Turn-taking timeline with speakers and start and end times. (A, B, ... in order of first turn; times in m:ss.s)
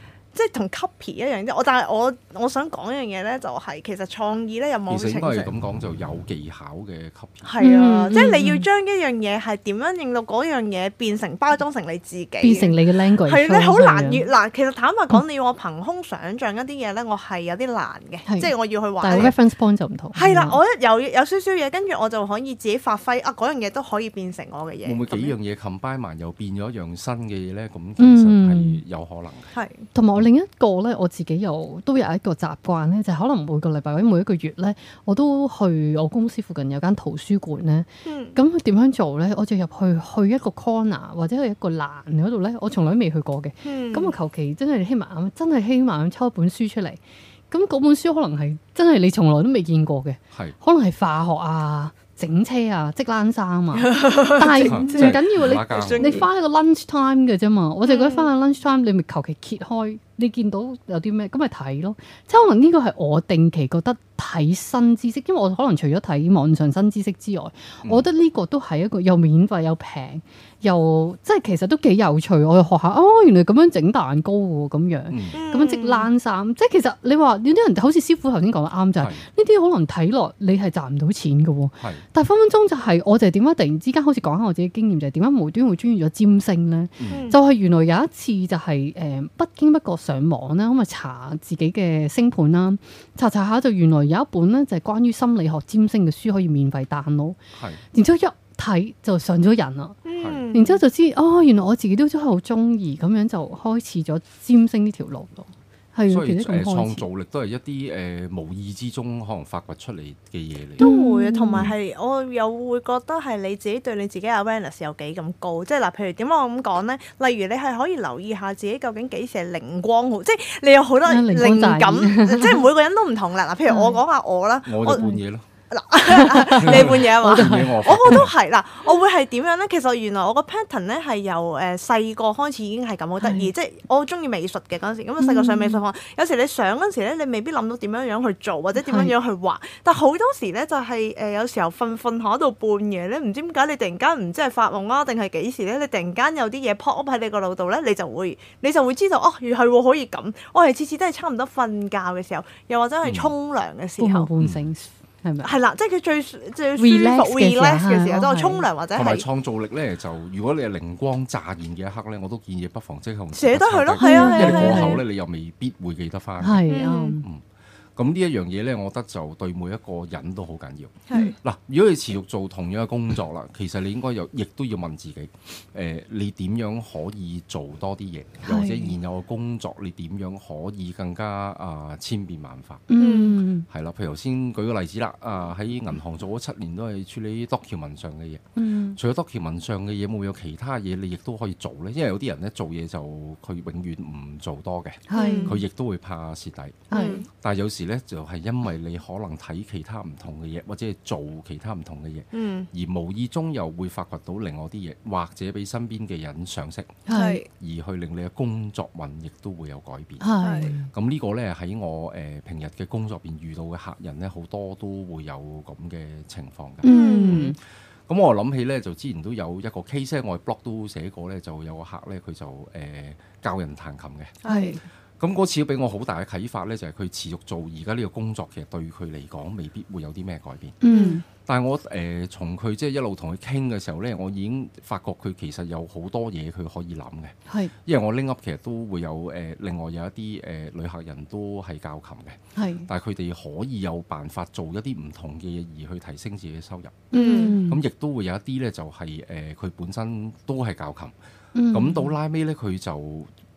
0:00.3-0:05.5 A
0:04.9-0:07.5 B
0:07.4-0:19.4 A
0:07.6-0:08.7 C
0:12.4-0:14.3 C
0:18.3-0:20.6 C
0:20.1-0:25.4 A
0:24.8-0:29.5 B
0:28.0-0:28.8 C
0:29.5-0:29.9 A
0:29.9-1:37.4 C
0:38.0-0:38.4 A
0:43.6-0:44.1 A
0:53.7-0:56.3 A
0:54.6-0:56.2 B
0:57.8-0:58.3 A
1:15.1-1:15.4 B
1:15.3-1:16.1 A
1:19.0-1:19.2 B
1:27.0-1:27.3 B
1:27.1-1:27.4 A
1:37.6-1:37.8 B
1:37.9-1:40.0 C
1:40.1-1:40.8 A
1:40.5-1:47.1 C
1:46.1-1:50.9 B
1:50.8-2:05.1 A
1:50.8-1:51.7 C
2:01.1-2:02.6 C
2:03.7-2:04.0 C
2:04.7-2:05.4 B
2:05.7-2:34.3 A
2:06.0-2:08.2 C
2:06.6-2:08.3 B
2:13.2-2:13.5 C
2:15.2-2:15.8 C
2:18.8-2:19.2 C
2:33.0-2:33.3 B
2:34.0-2:35.6 C
2:34.4-2:34.6 B
2:35.4-2:39.2 A
2:36.8-2:38.6 C
2:38.9-2:47.4 B
2:43.3-2:45.0 A
2:44.0-2:45.0 C
2:46.4-2:47.2 C
2:46.7-2:47.2 A
2:48.0-3:02.8 B
2:51.1-2:51.4 A
2:58.4-2:58.9 C
3:02.9-3:03.7 C
3:03.0-3:03.4 A
3:03.7-3:08.4 B
3:08.6-3:09.0 C
3:09.0-3:30.3 B
3:15.1-3:15.6 C
3:15.2-3:15.6 A
3:16.9-3:17.2 C
3:16.9-3:17.2 A
3:22.3-3:22.7 A
3:27.1-3:27.4 C
3:27.1-3:27.5 A
3:30.2-3:30.9 C
3:30.4-3:30.7 A
3:30.9-3:37.5 B
3:36.8-3:37.6 C
3:36.9-3:37.5 A
3:38.1-3:44.4 B
3:44.4-3:44.8 A
3:44.5-3:44.8 C
3:45.2-3:50.8 B
3:50.8-3:51.2 C
3:50.9-3:51.2 A
3:51.4-4:11.2 B
3:57.5-3:57.7 C
4:02.6-4:02.9 C
4:07.1-4:07.8 C
4:07.1-4:07.6 A
4:11.5-4:12.1 C
4:11.7-4:13.3 B